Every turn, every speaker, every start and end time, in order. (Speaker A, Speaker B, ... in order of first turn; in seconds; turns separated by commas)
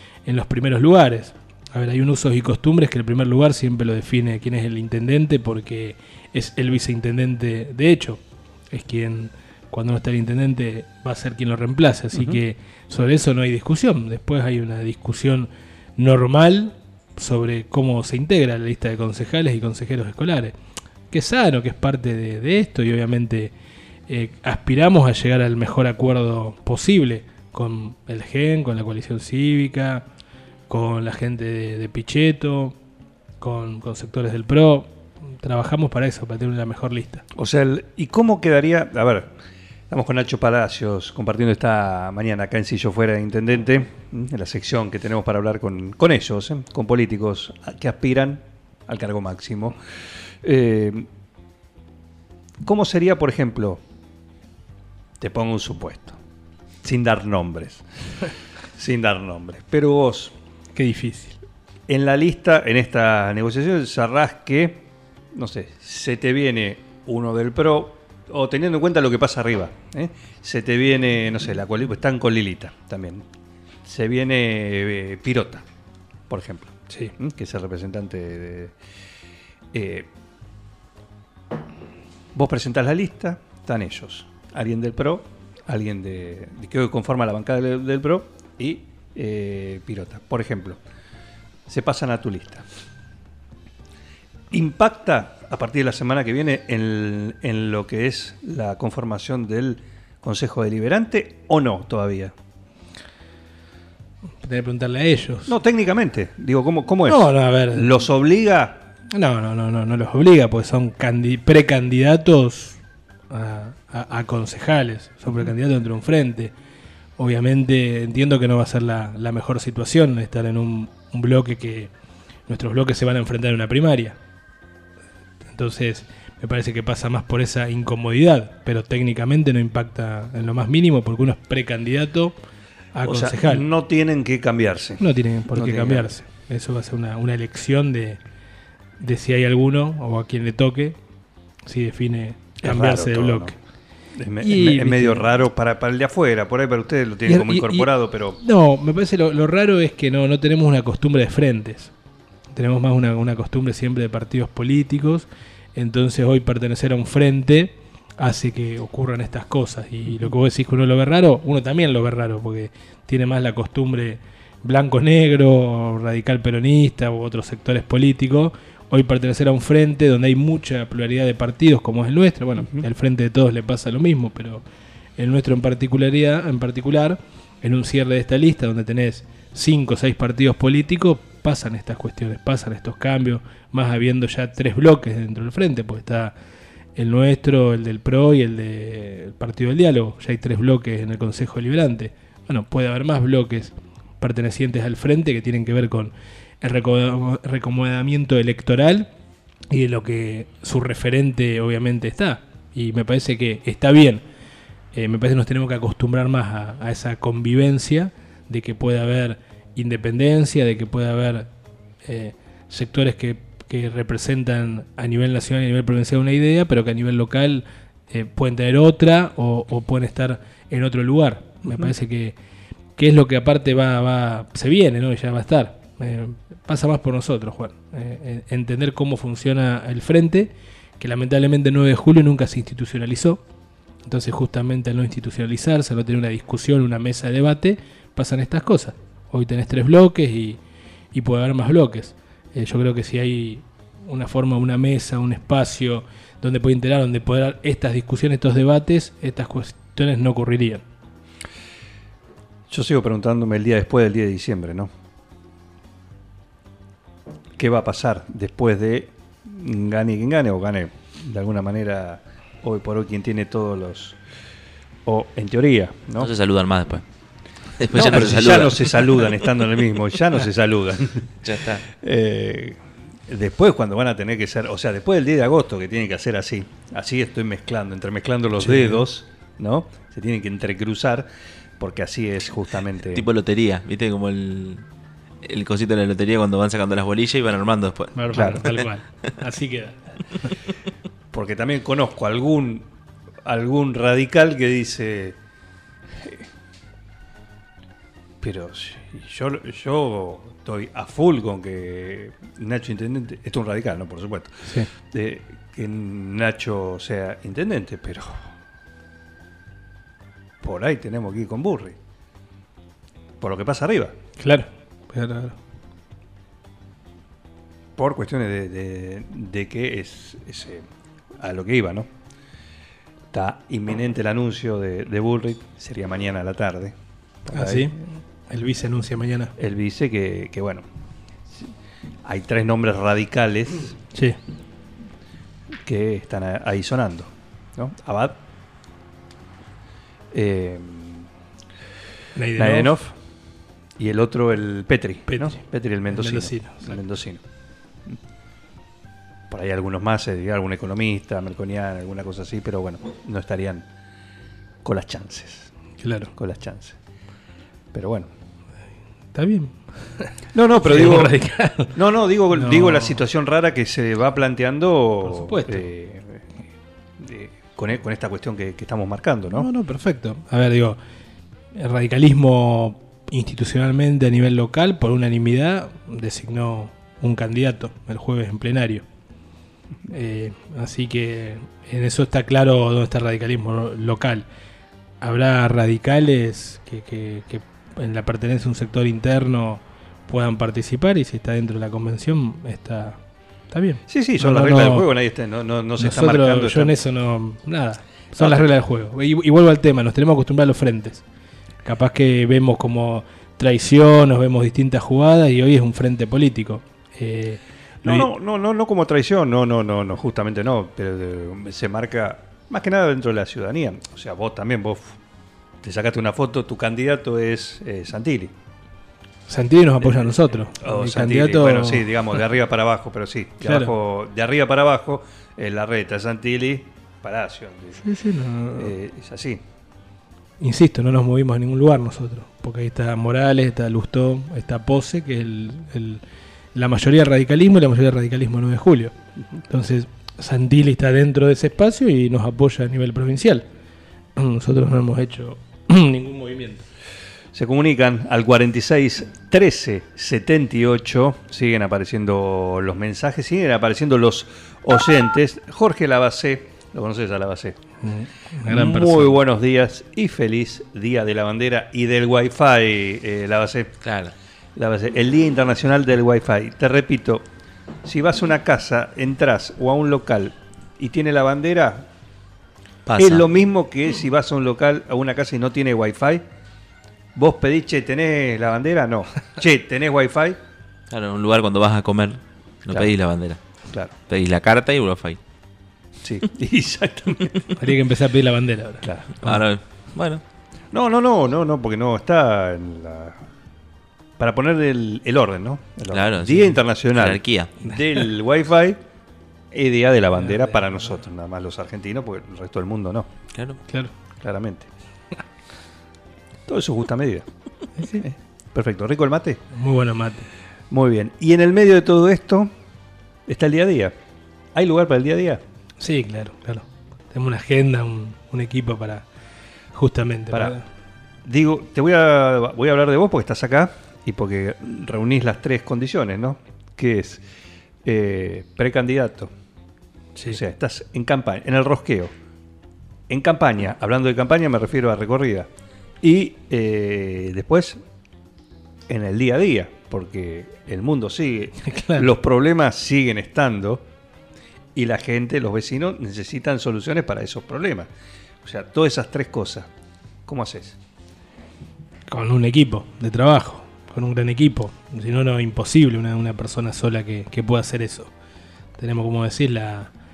Speaker A: 0.2-20.5, Speaker B: 12.1-12.4, Speaker A: 21.1-23.5, Speaker A: 24.1-30.0, Speaker A: 30.7-32.8, Speaker A: 33.4-37.2, Speaker B: 37.4-39.4, Speaker B: 39.9-49.8, Speaker B: 50.4-51.1, Speaker B: 52.6-53.8, Speaker B: 55.2-56.2, Speaker B: 56.8-57.9, Speaker B: 58.8-60.4, Speaker A: 60.8-61.4, Speaker B: 61.9-73.2, Speaker B: 73.8-75.6, Speaker B: 76.3-78.8, Speaker B: 79.7-80.1, Speaker B: 82.3-90.8, Speaker B: 91.7-92.7, Speaker B: 94.5-102.3, Speaker A: 104.4-105.5, Speaker B: 105.5-108.8, Speaker A: 107.1-107.9, Speaker A: 109.1-112.8, Speaker A: 113.3-116.5, Speaker A: 117.2-121.9, Speaker A: 122.5-124.2, Speaker A: 125.5-132.3, Speaker A: 132.9-133.6, Speaker B: 133.0-135.0, Speaker A: 135.0-138.2, Speaker B: 135.5-136.1, Speaker A: 139.0-141.0, Speaker A: 141.7-143.6, Speaker B: 142.6-143.5, Speaker B: 144.2-148.4, Speaker A: 144.4-145.2, Speaker A: 147.2-147.9, Speaker A: 148.4-151.9, Speaker A: 152.5-174.6, Speaker B: 172.6-172.8, Speaker A: 175.2-186.3, Speaker A: 186.9-199.1, Speaker A: 199.7-204.2, Speaker A: 204.9-211.5, Speaker A: 212.0-222.4, Speaker B: 221.7-221.9, Speaker A: 223.0-233.4, Speaker A: 234.0-240.6, Speaker A: 241.1-250.8, Speaker B: 252.7-254.9, Speaker B: 257.6-264.2, Speaker B: 265.0-266.3, Speaker C: 266.2-267.0, Speaker C: 267.8-269.3, Speaker B: 267.9-283.2, Speaker C: 271.4-271.8, Speaker A: 278.6-279.0, Speaker C: 283.1-284.8, Speaker C: 285.4-288.7, Speaker A: 288.1-290.5, Speaker B: 288.3-288.7, Speaker B: 291.3-292.9, Speaker B: 293.4-295.4, Speaker B: 296.2-296.4, Speaker B: 298.4-308.5, Speaker B: 310.6-312.0, Speaker B: 313.4-314.1, Speaker A: 314.4-315.6, Speaker B: 317.9-320.9, Speaker B: 321.4-322.1, Speaker B: 323.3-328.0, Speaker A: 327.5-329.5, Speaker B: 329.6-330.9, Speaker B: 332.2-333.9, Speaker B: 335.8-338.4, Speaker B: 340.3-341.3, Speaker A: 342.4-342.9, Speaker B: 342.6-343.1, Speaker B: 344.0-347.4, Speaker A: 345.3-345.6, Speaker A: 346.1-347.0, Speaker B: 349.5-353.9, Speaker B: 354.8-355.7, Speaker A: 356.0-356.3, Speaker B: 356.4-357.0, Speaker B: 357.9-358.3, Speaker A: 359.3-361.9, Speaker B: 360.5-361.3, Speaker B: 361.9-366.5, Speaker A: 362.5-363.2, Speaker A: 365.2-365.9, Speaker B: 367.2-369.7, Speaker A: 369.5-371.0, Speaker A: 371.7-379.0, Speaker A: 380.1-384.4, Speaker A: 385.2-393.2, Speaker A: 393.7-395.1, Speaker B: 394.1-396.9, Speaker A: 396.0-401.2, Speaker B: 398.4-398.6, Speaker A: 401.9-408.3, Speaker B: 408.0-415.1, Speaker B: 415.8-418.5, Speaker A: 419.5-422.3, Speaker B: 420.0-428.0, Speaker A: 423.6-423.9, Speaker A: 428.0-428.9, Speaker B: 428.8-429.6, Speaker A: 430.6-436.2, Speaker A: 436.8-439.1, Speaker A: 439.7-443.6, Speaker A: 444.4-446.9, Speaker B: 447.5-457.8, Speaker A: 458.0-459.4, Speaker B: 458.7-463.9, Speaker C: 464.0-464.3, Speaker B: 464.8-467.5, Speaker B: 468.0-472.1, Speaker C: 473.1-473.4, Speaker B: 473.2-476.4, Speaker B: 477.4-480.6, Speaker C: 481.1-483.6, Speaker C: 484.3-485.4, Speaker B: 486.2-487.6, Speaker A: 487.8-489.6, Speaker C: 489.4-490.4, Speaker B: 490.9-493.4, Speaker B: 494.4-499.0, Speaker C: 496.1-497.7, Speaker B: 499.7-503.3, Speaker A: 500.4-500.9, Speaker B: 504.4-504.9, Speaker B: 506.7-507.5, Speaker A: 508.0-508.2, Speaker B: 508.2-509.6, Speaker A: 509.7-510.5, Speaker B: 510.9-512.7, Speaker B: 513.5-514.1, Speaker B: 514.7-515.6, Speaker A: 516.0-519.2, Speaker A: 519.9-520.9, Speaker B: 520.5-520.8, Speaker B: 521.4-527.4, Speaker B: 528.0-529.5, Speaker B: 530.5-532.3, Speaker B: 533.3-535.7, Speaker B: 536.2-538.0, Speaker B: 539.1-544.0, Speaker A: 541.8-542.3, Speaker B: 544.9-548.1, Speaker B: 548.6-549.9, Speaker B: 550.5-551.0, Speaker A: 552.3-558.3, Speaker A: 559.0-560.1